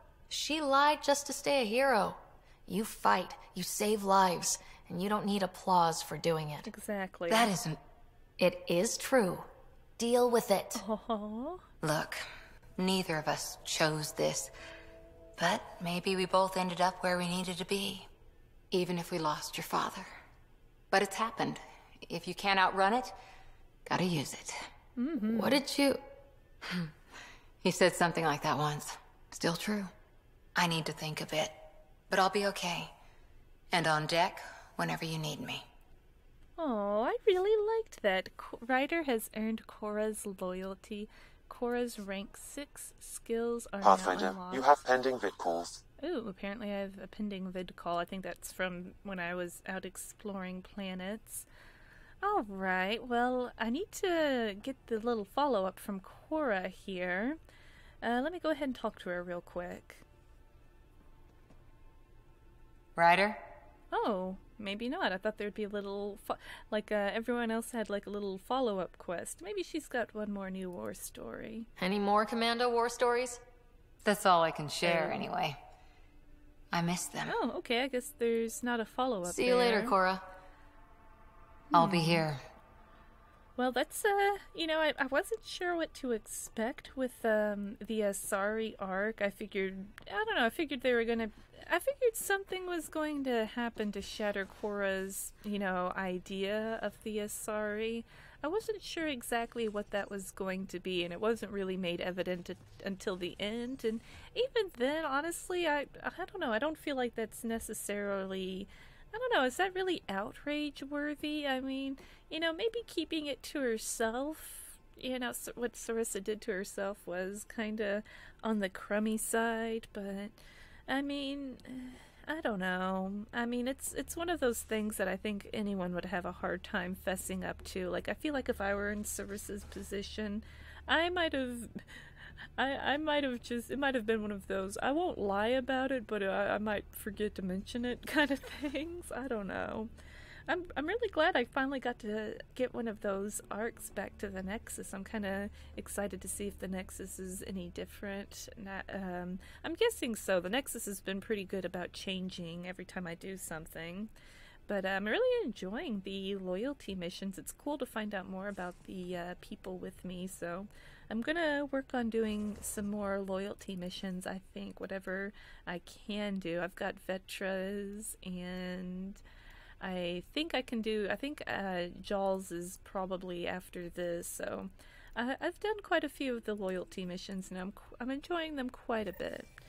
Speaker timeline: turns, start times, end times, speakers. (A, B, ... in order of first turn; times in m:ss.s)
0:00.3-0:06.7 A
0:06.6-0:07.5 B
0:07.3-0:07.8 C
0:08.4-0:09.5 A
0:10.0-0:10.8 A
0:10.7-0:11.6 B
0:11.8-0:12.2 C
0:12.8-0:14.5 C
0:15.4-0:18.1 C
0:18.7-0:20.1 C
0:20.9-0:23.1 C
0:23.9-0:24.6 C
0:25.0-0:25.6 B
0:25.3-0:26.0 A
0:27.6-0:29.9 C
0:30.6-0:31.5 C
0:32.1-0:32.9 C
0:33.7-0:35.6 C
0:36.6-0:44.6 B
0:43.8-0:45.8 D
0:46.0-0:51.5 B
0:52.2-0:57.4 B
0:58.0-1:00.0 B
1:03.0-1:03.4 C
1:03.9-1:11.7 B
1:11.8-1:13.4 A
1:14.0-1:15.6 C
1:14.8-1:15.2 B
1:16.7-1:17.4 C
1:17.2-1:20.0 B
1:19.2-1:20.2 A
1:21.7-1:22.2 B
1:21.7-1:22.4 C
1:23.6-2:00.4 B
2:00.9-2:11.8 B
2:12.6-2:19.9 B
2:20.5-2:34.1 B
2:34.7-2:49.2 B
2:49.8-2:59.5 B